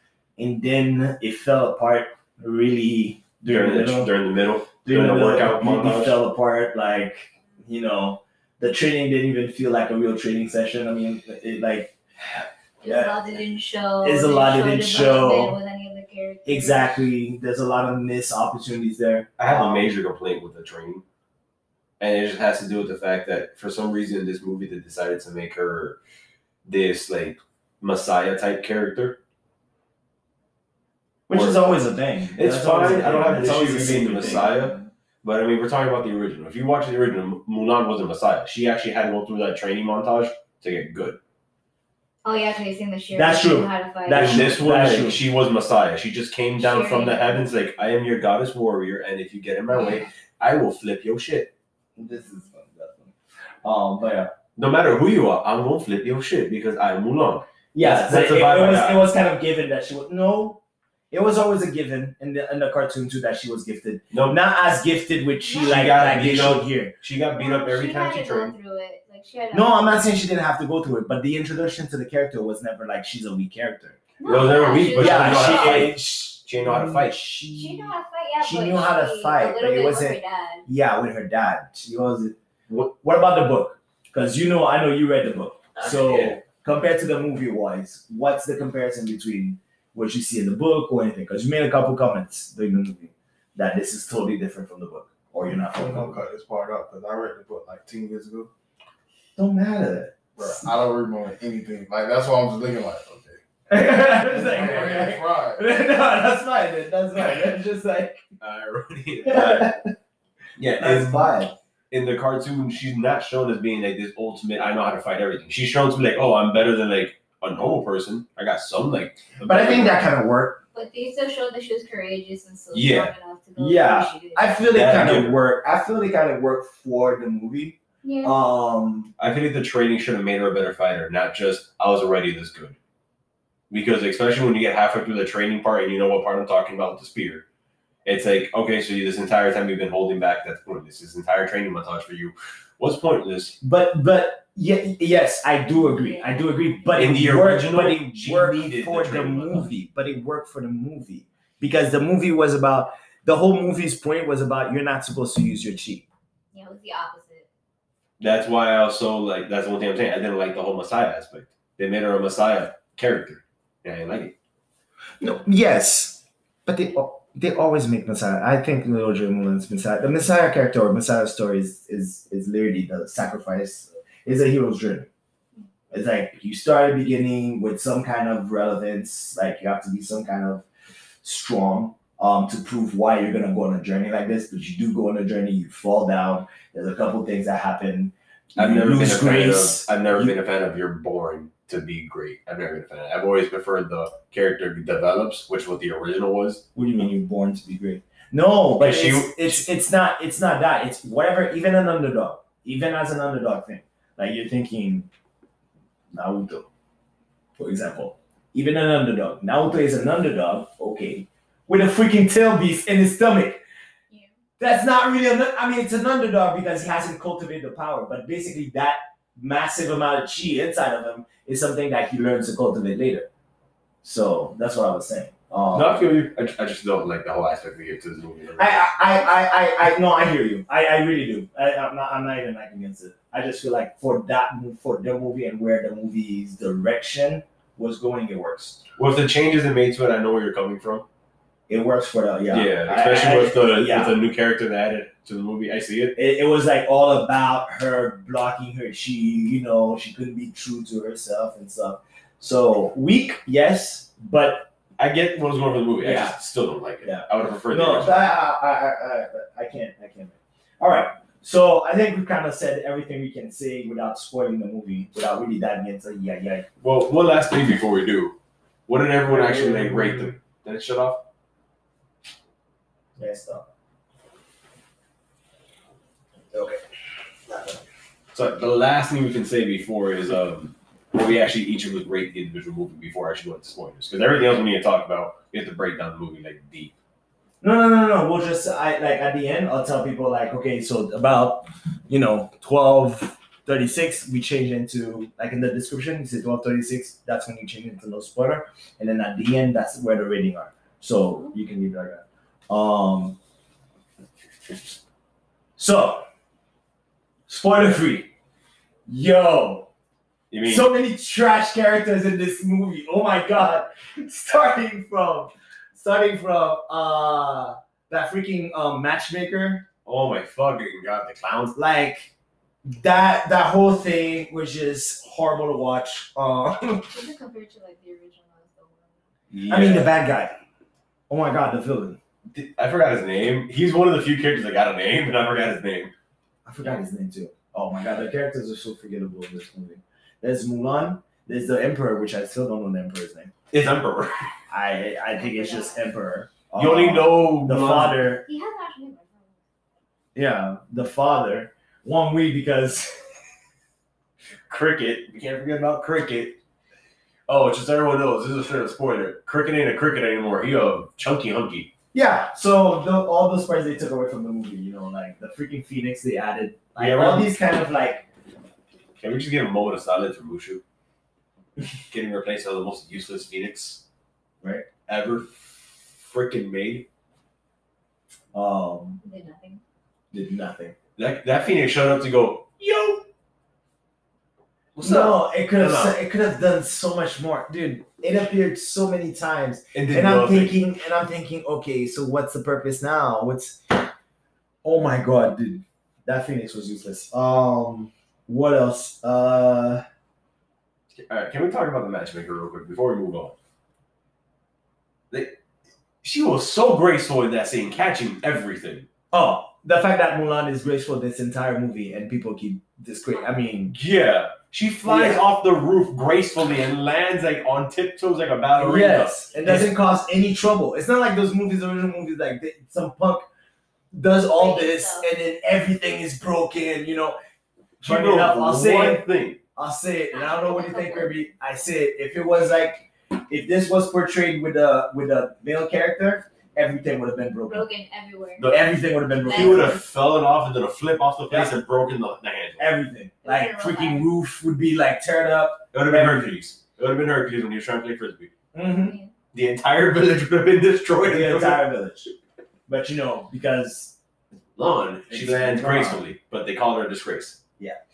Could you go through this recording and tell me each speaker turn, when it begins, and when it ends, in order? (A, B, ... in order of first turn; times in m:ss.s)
0:00.4-0:04.1 A
0:03.5-0:06.2 B
0:04.8-0:13.2 A
0:12.8-0:17.1 C
0:14.0-0:15.6 A
0:16.4-0:19.8 A
0:19.4-0:21.0 B
0:22.0-0:26.0 B
0:26.6-0:29.2 B
0:31.3-0:34.8 A
0:31.3-0:31.8 B
0:32.3-0:41.2 B
0:42.2-0:44.4 C
0:43.1-0:45.2 A
0:44.1-0:51.5 B
0:46.6-0:47.4 C
0:52.0-0:53.1 A
0:53.6-0:54.3 A
0:54.6-0:59.1 B
0:57.7-1:00.6 A
1:01.1-1:06.9 A
1:04.1-1:04.4 B
1:05.4-1:05.9 C
1:05.6-1:08.5 B
1:07.3-1:10.1 C
1:09.5-1:14.0 A
1:14.2-1:15.9 C
1:14.2-1:17.2 B
1:14.9-1:36.2 A
1:17.5-1:20.6 C
1:25.8-1:26.4 B
1:35.5-1:38.5 D
1:39.4-1:40.6 A
1:40.4-1:45.6 D
1:43.7-1:48.2 A
1:48.4-1:49.7 B
1:49.2-1:49.9 A
1:50.6-1:51.4 B
1:50.8-1:51.5 A
1:51.9-2:00.0 B
1:59.4-2:00.6 A
2:00.7-2:04.6 C
2:02.7-2:03.1 B
2:03.6-2:09.1 A
2:04.7-2:05.4 B
2:08.0-2:08.4 C
2:09.2-2:12.8 B
2:13.7-2:17.4 B
2:18.0-2:23.6 B
2:23.6-2:36.0 A
2:25.7-2:27.1 C
2:27.0-2:29.7 B
2:36.5-2:37.5 C
2:38.2-2:44.3 B
2:45.2-2:55.1 A
2:55.9-3:00.6 A
3:01.2-3:10.4 A
3:08.6-3:16.6 B
3:16.7-3:25.1 A
3:18.8-3:19.6 B
3:26.1-3:26.7 A
3:27.6-3:33.6 A
3:34.6-3:43.3 A
3:44.0-3:46.0 A
3:45.7-3:49.0 B
3:48.6-3:58.8 A
3:59.0-4:01.0 B
4:01.7-4:04.2 A
4:02.5-4:06.1 B
4:06.2-4:14.7 A
4:15.0-4:18.2 B
4:16.0-4:16.4 A
4:17.0-4:26.7 A
4:26.8-4:28.4 B
4:28.9-4:31.2 B
4:29.2-4:30.4 A
4:33.2-4:33.7 A
4:36.5-4:36.8 A
4:37.5-4:37.8 A
4:38.3-4:46.9 B
4:47.6-5:03.4 A
5:05.8-5:06.2 A
5:07.5-5:08.3 A
5:09.1-5:09.9 A
5:10.5-5:10.9 B
5:10.6-5:19.8 A
5:20.0-5:21.8 B
5:21.7-5:22.3 A
5:22.8-5:27.1 A
5:27.1-5:29.3 C
5:29.5-5:30.1 B
5:29.7-5:30.6 A
5:31.3-5:32.2 A
5:32.5-5:36.1 B
5:36.6-5:43.5 A
5:43.7-5:44.5 B
5:44.7-5:48.4 A
5:45.3-5:46.0 C
5:46.8-5:48.2 B
5:48.4-5:49.6 C
5:50.3-5:53.2 A
5:54.7-5:56.6 B
5:57.5-6:01.9 B
6:02.1-6:08.2 A
6:07.0-6:07.5 B
6:09.2-6:10.8 B
6:12.1-6:14.0 B
6:15.1-6:17.1 B
6:18.5-6:19.2 A
6:19.2-6:19.8 C
6:20.3-6:20.9 A
6:21.2-6:23.2 B
6:24.9-6:26.2 B
6:25.0-6:34.0 A
6:29.9-6:30.8 B
6:34.8-6:40.0 A
6:41.1-6:43.5 B
6:45.3-6:45.6 B
6:46.2-6:49.1 B
6:49.3-6:53.9 A
6:53.9-6:59.9 B
6:55.0-6:55.4 A
6:58.8-7:03.4 A
7:04.1-7:07.4 A
7:04.5-7:05.3 C
7:08.0-7:17.9 A
7:08.0-7:09.6 B
7:10.3-7:11.5 C
7:17.7-7:18.7 C
7:18.6-7:22.9 B
7:18.7-7:20.0 A
7:19.4-7:20.0 C
7:21.5-7:21.7 A
7:22.8-7:26.6 A
7:23.4-7:24.3 C
7:25.9-7:28.5 B
7:28.7-7:29.2 A
7:29.0-7:29.3 C
7:29.5-7:31.8 B
7:31.2-7:32.3 A
7:32.9-7:34.2 A
7:34.8-7:37.6 B
7:35.3-7:36.2 A